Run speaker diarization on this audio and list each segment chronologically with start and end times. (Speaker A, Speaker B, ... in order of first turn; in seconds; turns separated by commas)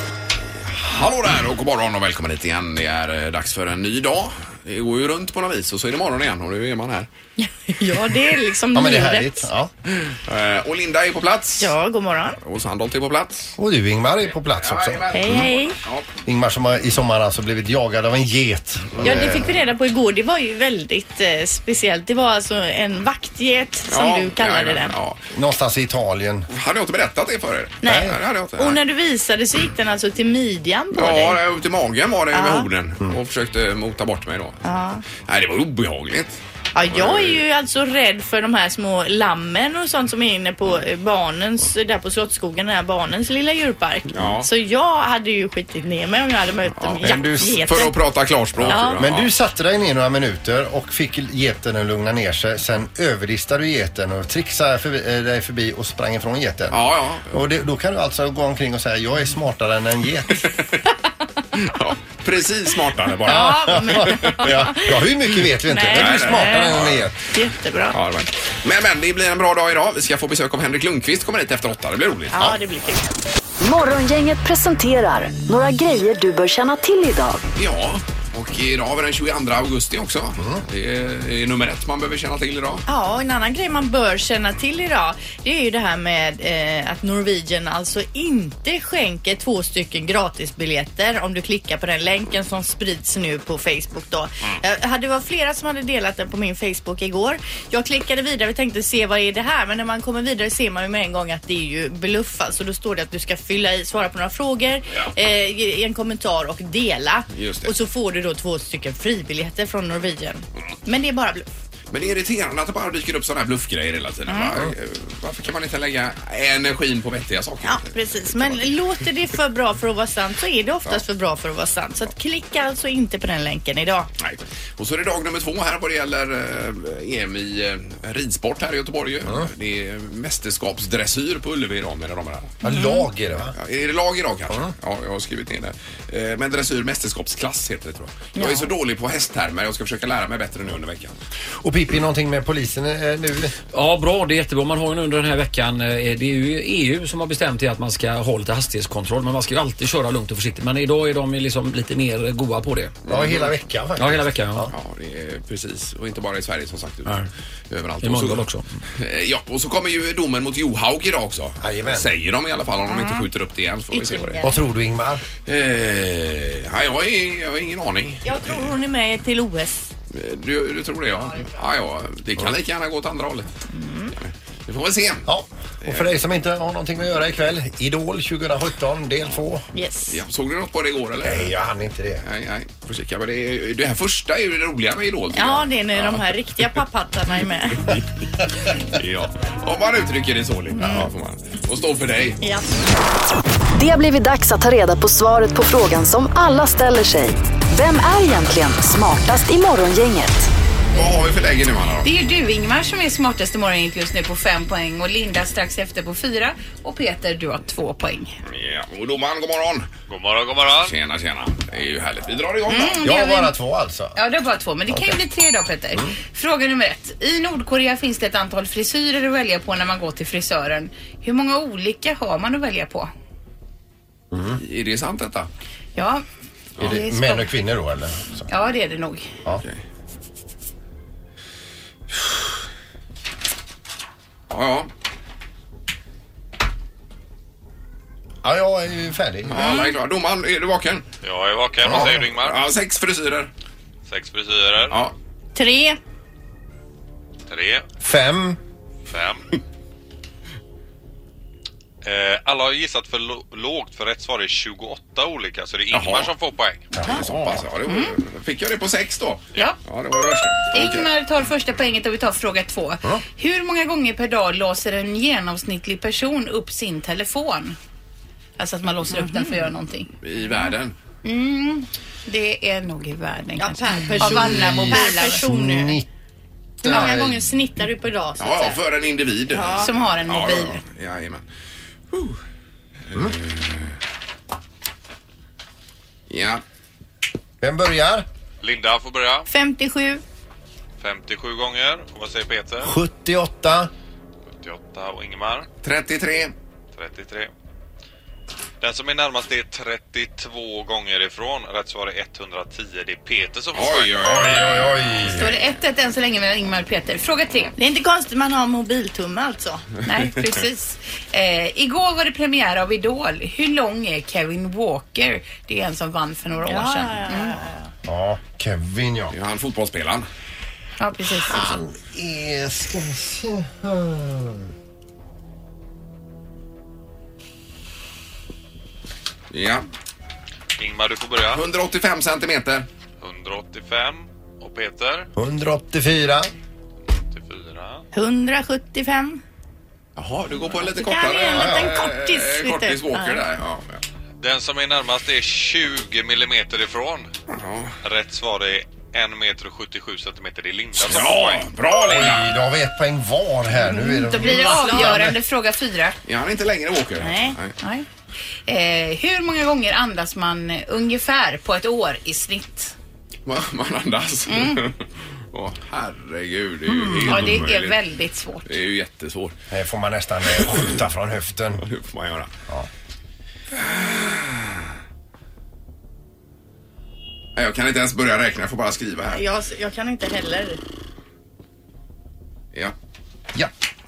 Speaker A: 0.6-7.1, Speaker B: 7.4-9.5, Speaker C: 8.7-9.7, Speaker A: 10.1-11.7, Speaker B: 11.6-12.4, Speaker A: 12.4-13.5, Speaker C: 13.6-15.5, Speaker A: 14.3-16.1, Speaker B: 15.1-15.8, Speaker C: 16.2-19.5, Speaker A: 18.9-19.2, Speaker B: 19.0-24.9, Speaker A: 23.9-25.2, Speaker C: 25.3-26.5, Speaker A: 26.5-28.8, Speaker B: 27.8-31.4, Speaker C: 27.9-28.1, Speaker A: 30.9-36.4, Speaker B: 32.3-32.7, Speaker B: 34.6-35.0, Speaker B: 36.7-47.9, Speaker A: 36.9-37.4, Speaker A: 44.1-44.5, Speaker A: 46.8-49.3, Speaker C: 47.0-47.6, Speaker C: 48.6-60.5, Speaker B: 48.7-49.0, Speaker A: 56.7-57.4, Speaker A: 61.6-64.5, Speaker C: 63.2-67.2, Speaker B: 63.2-64.9, Speaker B: 65.7-66.8, Speaker A: 65.9-67.1, Speaker B: 67.3-68.0, Speaker A: 67.9-72.4, Speaker B: 72.3-73.1, Speaker D: 73.6-77.4, Speaker A: 77.6-82.8, Speaker C: 80.4-80.6, Speaker B: 82.9-111.5, Speaker A: 107.3-107.7, Speaker A: 111.9-118.7, Speaker B: 114.3-114.6, Speaker B: 117.6-124.1, Speaker A: 124.2-132.6, Speaker B: 132.6-133.0, Speaker C: 132.6-133.5, Speaker A: 133.5-141.1, Speaker B: 138.3-138.7, Speaker C: 141.6-143.6, Speaker E: 143.7-153.0, Speaker A: 153.1-153.5, Speaker C: 153.1-154.7, Speaker E: 154.0-154.7, Speaker A: 154.7-164.4, Speaker E: 158.0-158.6, Speaker C: 161.6-162.1, Speaker B: 162.8-163.2, Speaker B: 163.9-164.6, Speaker C: 164.4-165.2, Speaker A: 165.4-168.7, Speaker B: 168.2-169.9, Speaker A: 170.1-173.5, Speaker B: 173.7-174.1, Speaker A: 174.2-175.3, Speaker C: 175.2-179.7, Speaker B: 179.7-180.2, Speaker A: 180.1-181.5, Speaker C: 181.2-182.2, Speaker A: 182.2-186.2, Speaker B: 185.3-187.9, Speaker A: 188.9-192.4, Speaker B: 190.7-191.1, Speaker B: 192.4-192.7, Speaker D: 193.8-200.5, Speaker A: 200.9-202.1, Speaker F: 202.0-208.4, Speaker A: 208.4-209.9, Speaker G: 210.1-210.9, Speaker A: 210.8-213.0, Speaker F: 212.7-213.5, Speaker C: 213.0-214.2, Speaker F: 214.1-223.1, Speaker C: 214.9-215.2, Speaker C: 224.3-224.6, Speaker A: 224.5-225.5, Speaker F: 225.9-226.2, Speaker C: 226.8-228.5, Speaker F: 226.8-227.5, Speaker F: 228.5-229.3, Speaker A: 229.6-229.8, Speaker A: 234.5-234.9, Speaker C: 238.4-239.8, Speaker A: 239.5-241.0, Speaker B: 239.6-239.9, Speaker G: 241.2-242.6, Speaker C: 241.8-242.2, Speaker A: 241.9-243.5, Speaker G: 244.1-245.0, Speaker A: 244.9-245.1, Speaker B: 245.5-246.0, Speaker G: 247.5-247.9, Speaker C: 248.0-248.6, Speaker G: 249.1-249.4, Speaker G: 252.0-256.8, Speaker A: 255.9-256.3, Speaker C: 256.9-257.6, Speaker A: 257.0-261.1, Speaker F: 260.7-267.8, Speaker F: 268.6-270.1, Speaker B: 269.1-269.6, Speaker A: 270.2-270.9, Speaker F: 271.2-275.5, Speaker B: 273.6-276.0, Speaker C: 274.2-276.1, Speaker C: 276.8-277.4, Speaker B: 276.8-278.8, Speaker F: 276.9-277.2, Speaker A: 278.4-281.4, Speaker B: 279.5-279.9, Speaker F: 279.8-280.8, Speaker A: 282.1-282.4, Speaker A: 283.1-284.0, Speaker A: 286.3-286.6, Speaker C: 287.6-288.2, Speaker G: 288.6-289.5, Speaker B: 289.5-290.2, Speaker G: 291.0-292.9, Speaker C: 292.8-293.9, Speaker G: 294.5-295.7, Speaker A: 295.8-296.5, Speaker G: 296.9-297.5, Speaker G: 298.8-305.0, Speaker A: 303.7-304.9, Speaker C: 304.2-305.6, Speaker F: 305.3-307.7, Speaker B: 307.8-309.9, Speaker F: 310.0-317.6, Speaker B: 316.6-317.9, Speaker C: 318.0-319.3, Speaker A: 319.3-320.2, Speaker F: 321.0-321.8, Speaker C: 321.3-324.7, Speaker A: 329.5-329.9, Speaker G: 330.8-331.6, Speaker A: 331.5-332.9, Speaker G: 333.2-335.3, Speaker C: 335.4-336.5, Speaker G: 337.1-338.0, Speaker B: 338.1-339.4, Speaker A: 340.1-344.0, Speaker B: 340.9-343.4, Speaker C: 341.5-341.9, Speaker G: 344.4-347.3, Speaker A: 347.5-347.9, Speaker G: 348.0-351.7, Speaker A: 351.0-352.6, Speaker C: 352.0-355.4, Speaker F: 353.9-356.2, Speaker B: 354.3-355.1, Speaker A: 356.2-357.8, Speaker B: 357.2-357.6, Speaker F: 357.8-358.1, Speaker F: 358.7-362.9, Speaker A: 363.4-368.0, Speaker F: 364.5-364.8, Speaker C: 366.9-367.6, Speaker F: 367.3-368.8, Speaker A: 368.6-369.6, Speaker C: 369.7-371.8, Speaker A: 371.8-372.5, Speaker A: 373.7-374.9, Speaker A: 377.5-379.4, Speaker B: 379.3-380.8